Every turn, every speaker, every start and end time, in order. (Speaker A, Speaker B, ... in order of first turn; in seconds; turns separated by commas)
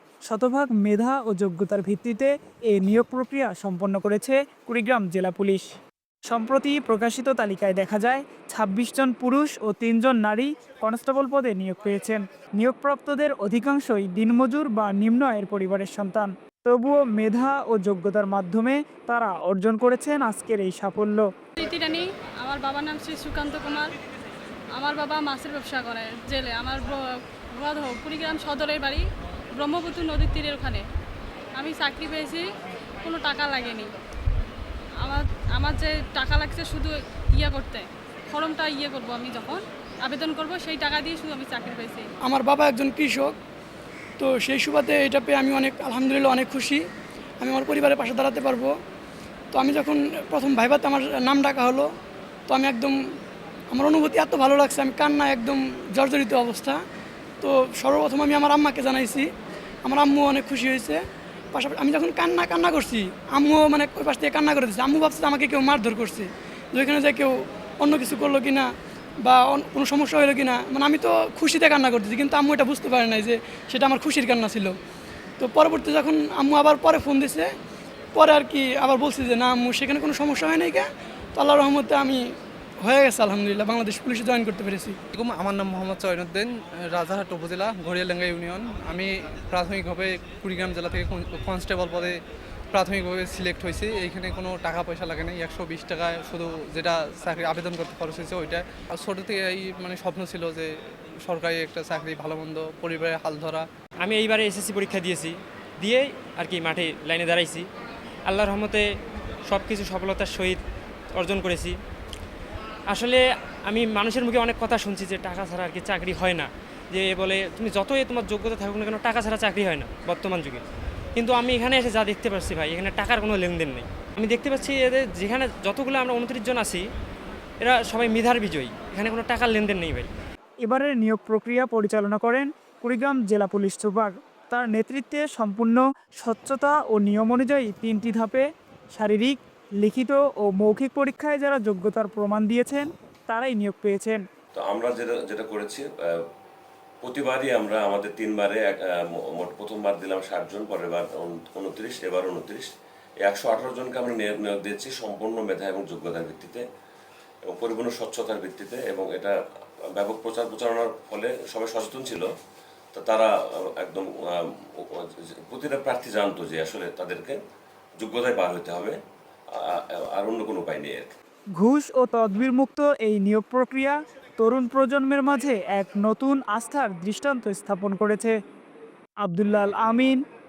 Speaker A: 0.3-5.7, Speaker A: 6.3-21.3, Speaker B: 21.6-23.9, Speaker B: 24.8-26.9, Speaker B: 27.6-29.0, Speaker B: 29.6-30.8, Speaker B: 31.6-32.5, Speaker B: 33.0-33.9, Speaker B: 35.0-42.1, Speaker C: 42.2-43.4, Speaker C: 44.2-46.9, Speaker C: 47.4-48.7, Speaker C: 49.5-51.9, Speaker C: 52.5-53.0, Speaker C: 53.7-56.8, Speaker C: 57.4-59.3, Speaker C: 59.9-68.7, Speaker C: 69.2-74.8, Speaker C: 75.4-77.5, Speaker C: 78.2-82.2, Speaker C: 82.8-85.0, Speaker D: 85.2-92.2, Speaker D: 92.7-100.7, Speaker D: 101.2-103.7, Speaker E: 104.0-107.7, Speaker E: 108.3-108.9, Speaker E: 109.5-110.6, Speaker E: 111.2-111.8, Speaker E: 112.9-120.6, Speaker E: 121.2-126.9, Speaker E: 127.6-130.1, Speaker A: 130.7-144.2, Speaker F: 144.5-146.2, Speaker F: 147.0-152.7, Speaker F: 153.2-156.6, Speaker F: 157.5-159.4, Speaker F: 159.9-162.3, Speaker F: 162.9-167.4, Speaker F: 168.0-169.0, Speaker F: 169.6-171.1, Speaker A: 171.6-178.3, Speaker A: 179.2-180.2